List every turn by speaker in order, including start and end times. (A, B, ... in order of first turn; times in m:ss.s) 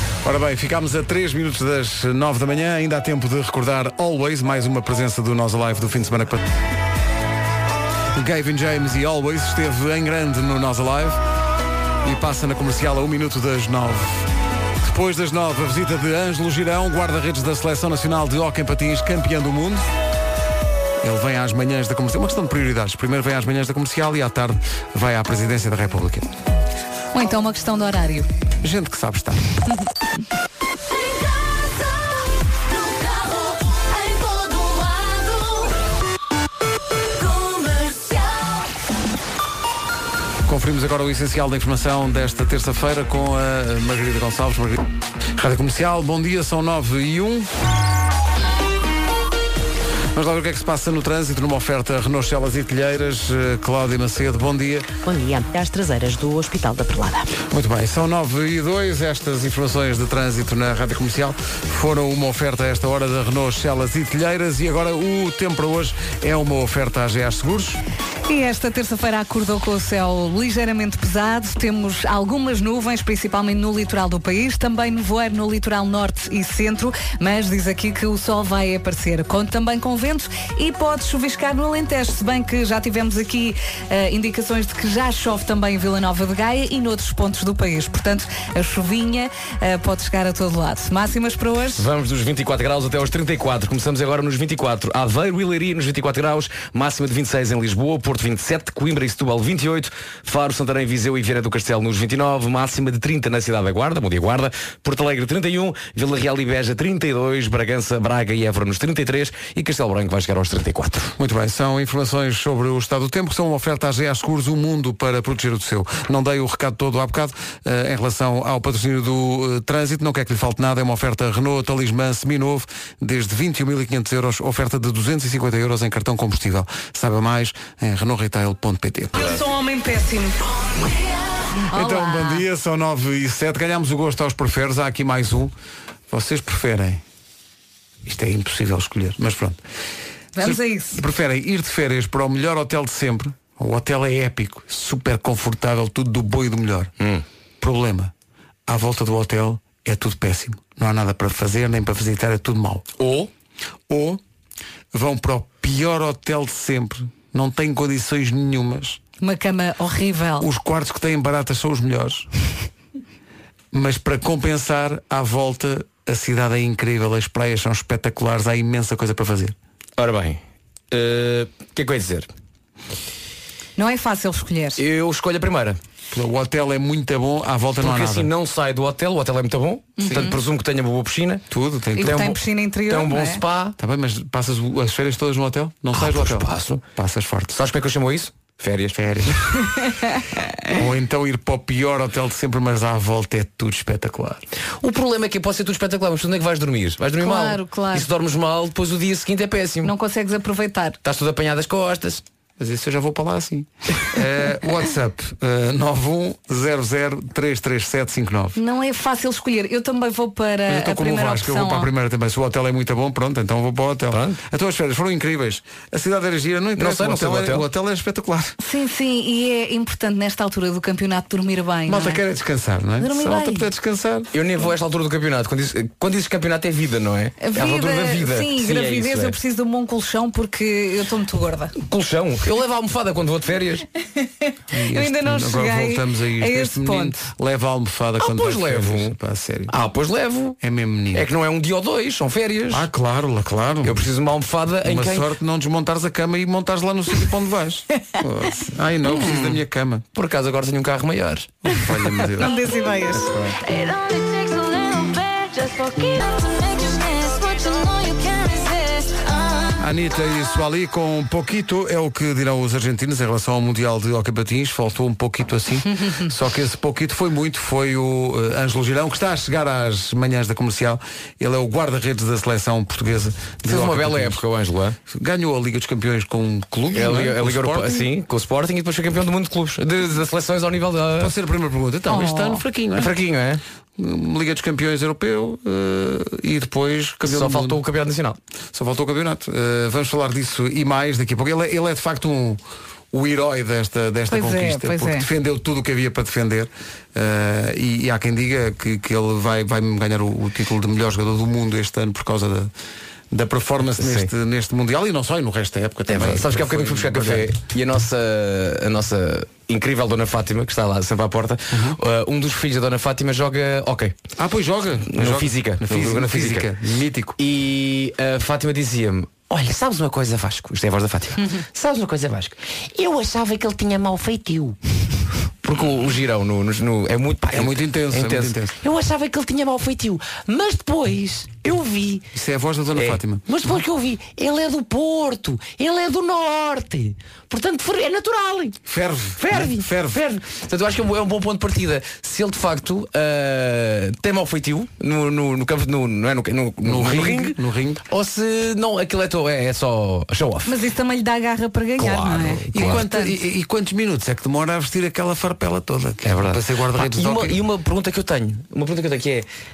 0:00.2-0:06.4 A
0:08.2-0:11.2 A
0:12.0-0:14.3 A
0:14.8-0:19.9 A
0:21.0-0:26.3 A
0:27.1-0:28.3 B
0:28.6-0:29.4 A
0:40.4-0:44.8 A
0:45.4-0:47.5 A
0:50.1-0:54.9 A
0:55.0-0:57.4 C
0:57.4-1:07.8 A
1:08.3-1:31.8 B
1:31.8-1:51.1 D
1:51.2-2:09.3 A
2:09.2-2:10.4 B
2:11.7-2:12.4 B
2:11.7-2:15.5 A
2:16.1-2:17.0 A
2:18.0-2:19.6 A
2:20.4-2:21.0 B
2:20.4-2:26.9 A
2:27.6-2:28.1 A
2:28.7-2:32.9 A
2:33.0-2:33.3 D
2:33.9-2:34.2 A
2:34.9-2:39.0 A
2:39.2-2:40.5 B
2:40.4-2:42.3 A
2:43.7-2:49.6 A
2:50.0-2:50.4 D
2:50.9-2:52.3 D
2:53.8-2:54.8 B
2:54.8-2:55.8 D
2:56.1-2:58.3 A
2:57.8-3:01.4 D
3:00.0-3:00.4 B
3:01.5-3:02.3 A
3:02.0-3:03.4 B
3:02.0-3:02.3 D
3:02.8-3:03.8 D
3:03.8-3:07.6 A
3:05.9-3:06.8 D
3:07.5-3:09.3 D
3:09.0-3:09.4 A
3:10.7-3:14.4 A
3:14.8-3:19.9 D
3:17.2-3:18.1 B
3:19.8-3:21.0 B
3:21.0-3:22.2 D
3:22.6-3:28.6 A
3:28.6-3:31.9 B
3:30.7-3:38.6 A
3:34.1-3:34.4 D
3:36.8-3:37.6 D
3:38.6-3:42.2 B
3:41.9-3:44.3 A
3:43.0-3:43.7 B
3:44.3-3:49.4 D
3:47.4-3:51.7 B
3:51.8-3:53.8 D
3:54.7-3:59.7 A
3:54.9-3:57.2 B
3:58.2-3:59.2 D
3:59.7-4:00.6 D
4:00.6-4:01.3 A
4:01.1-4:02.9 D
4:02.7-4:04.1 A
4:03.8-4:05.3 D
4:04.8-4:10.0 A
4:09.1-4:09.6 D
4:10.1-4:11.6 D
4:11.6-4:12.5 A
4:12.4-4:13.3 B
4:13.2-4:13.5 A
4:13.7-4:19.7 E
4:19.8-4:34.4 A
4:33.7-4:35.0 D
4:35.1-4:38.1 A
4:36.9-4:41.3 D
4:41.2-4:43.1 A
4:42.1-4:42.6 B
4:42.9-4:43.6 D
4:44.0-4:47.8 A
4:47.2-4:48.4 D
4:48.7-5:02.7 A
4:54.3-4:55.3 B
5:03.3-5:07.5 A
5:04.0-5:04.3 D
5:06.1-5:14.2 D
5:11.7-5:12.0 A
5:14.4-5:17.4 A
5:15.1-5:16.7 D
5:17.4-5:24.8 D
5:25.6-5:32.3 D
5:27.5-5:28.8 A
5:32.3-5:33.5 A
5:33.0-5:38.8 D
5:38.9-5:40.2 A
5:39.4-5:47.6 D
5:46.8-5:48.0 A
5:48.1-5:50.7 D
5:50.7-5:53.4 B
5:52.0-5:53.0 D
5:52.7-5:57.6 A
5:56.3-5:59.5 D